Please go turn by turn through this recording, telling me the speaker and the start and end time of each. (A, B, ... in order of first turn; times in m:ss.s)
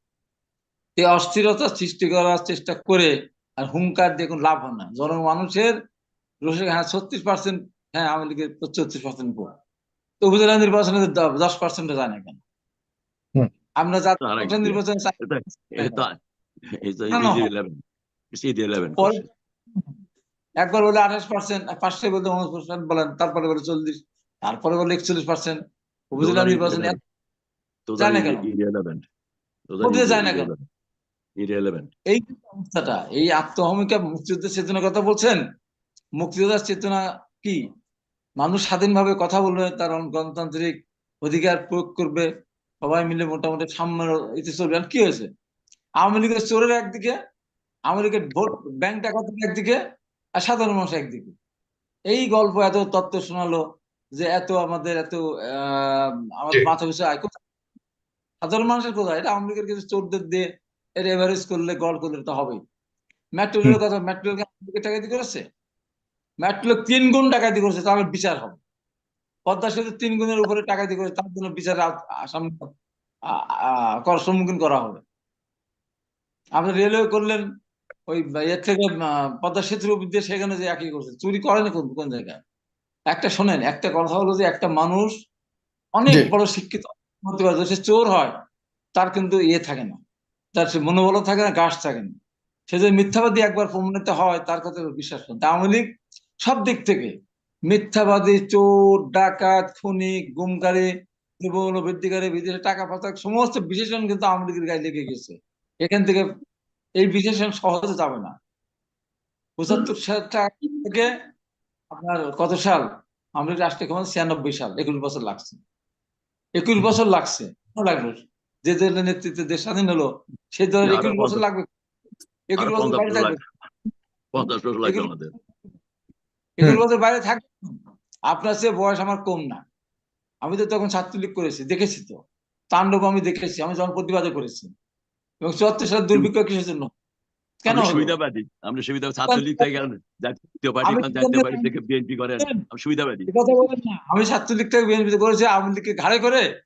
0:01.0-0:05.7 A
0:06.4-0:09.5 A
0:10.2-0:12.4 A
0:13.8-0:15.1 A
0:14.2-0:16.2 B
0:15.7-0:16.0 A
0:16.7-0:17.8 B
0:17.1-0:17.5 A
0:18.3-0:19.2 B
0:19.0-0:19.3 A
0:20.6-0:25.6 A
0:26.1-0:27.0 A
0:26.2-0:27.0 B
0:27.9-0:29.0 B
0:28.0-0:28.5 A
0:29.7-0:30.6 B
0:29.8-0:30.5 A
0:31.4-0:31.9 B
0:32.1-0:35.4 A
0:36.2-0:37.6 A
0:38.4-0:42.3 A
0:42.8-0:45.3 A
0:46.0-0:47.1 A
0:47.9-0:49.8 A
0:50.4-0:51.3 A
0:52.1-0:53.6 A
0:54.2-0:57.4 A
0:58.4-1:00.5 A
1:01.0-1:02.6 A
1:03.4-1:05.4 A
1:06.4-1:08.6 A
1:09.5-1:12.7 A
1:13.3-1:15.0 A
1:16.6-1:17.4 A
1:18.1-1:22.4 A
1:23.1-1:25.1 A
1:26.0-1:28.3 A
1:29.0-1:30.0 A
1:30.5-1:32.1 A
1:32.7-1:35.9 A
1:36.4-1:37.1 A
1:37.7-1:46.3 A
1:47.0-1:48.3 A
1:49.6-1:51.1 A
1:51.9-1:55.6 A
1:56.6-2:01.6 A
2:00.8-2:01.4 B
2:02.5-2:03.4 A
2:02.6-2:03.4 B
2:04.3-2:05.3 B
2:04.8-2:05.1 A
2:06.6-2:07.8 A
2:08.3-2:09.6 A
2:10.4-2:12.2 A
2:12.7-2:14.7 A
2:15.4-2:16.9 A
2:17.6-2:18.1 A
2:17.7-2:23.3 B
2:19.3-2:19.7 A
2:20.8-2:21.7 A
2:23.3-2:26.4 A